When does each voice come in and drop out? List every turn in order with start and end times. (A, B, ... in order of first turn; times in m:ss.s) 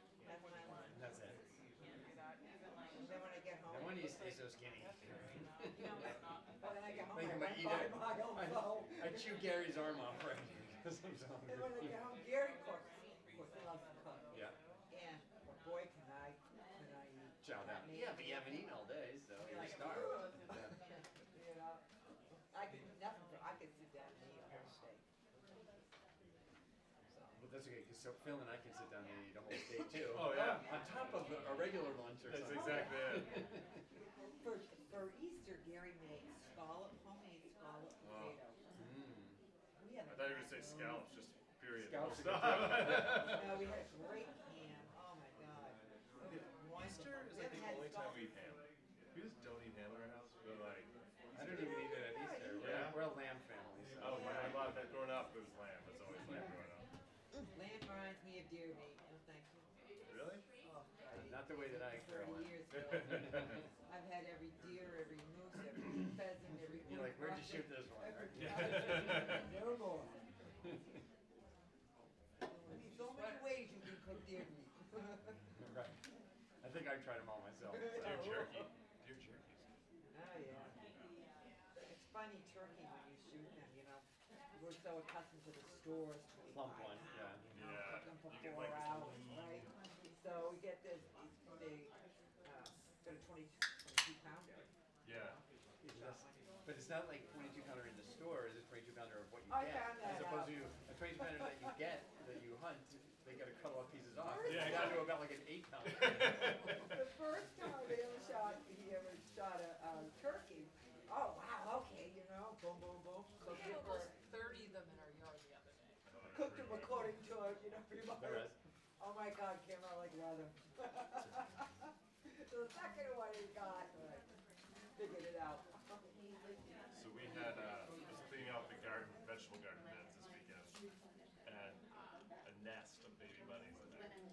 0:00.2-0:01.9 A
0:00.6-0:01.0 B
0:00.9-0:01.4 C
0:01.8-0:06.8 B
0:02.9-0:04.3 A
0:03.7-0:06.1 C
0:06.6-0:09.8 A
0:07.0-0:12.1 C
0:11.4-0:18.8 A
0:12.3-0:12.8 B
0:13.4-0:14.5 B
0:17.4-0:20.8 C
0:19.4-0:21.8 A
0:20.1-0:20.9 B
0:22.5-0:25.0 A
0:27.3-0:33.8 C
0:30.1-0:30.7 D
0:30.2-0:31.3 A
0:32.3-0:33.3 D
0:32.4-0:33.6 A
0:34.4-0:38.6 A
0:38.0-0:38.4 D
0:38.8-0:39.4 C
0:39.8-0:41.1 A
0:40.0-0:43.4 D
0:41.7-0:43.5 C
0:42.8-0:48.6 A
0:46.3-0:50.9 D
0:51.3-0:54.6 C
0:51.4-0:53.1 A
0:52.6-0:53.0 D
0:54.0-0:54.7 A
0:54.0-0:56.9 D
0:57.5-0:59.7 A
1:00.1-1:00.4 D
1:00.3-1:10.2 A
1:01.1-1:03.6 C
1:02.8-1:03.1 D
1:06.8-1:09.4 C
1:12.5-1:15.4 A
1:15.6-1:16.0 C
1:16.6-1:18.5 C
1:17.6-1:18.7 A
1:17.9-1:19.7 D
1:20.1-1:20.7 A
1:20.5-1:20.7 D
1:21.8-1:36.4 A
1:26.4-1:27.7 C
1:27.5-1:29.7 D
1:35.0-1:35.4 D
1:35.8-1:46.7 C
1:39.5-1:40.7 A
1:44.2-1:45.1 A
1:44.5-1:45.1 D
1:46.8-1:54.2 A
1:53.4-1:55.9 B
1:56.1-1:57.1 D
1:56.3-2:04.2 A
1:58.1-1:58.6 C
2:04.9-2:06.0 A
2:06.9-2:10.8 D
2:11.4-2:11.8 D
2:12.4-2:14.1 D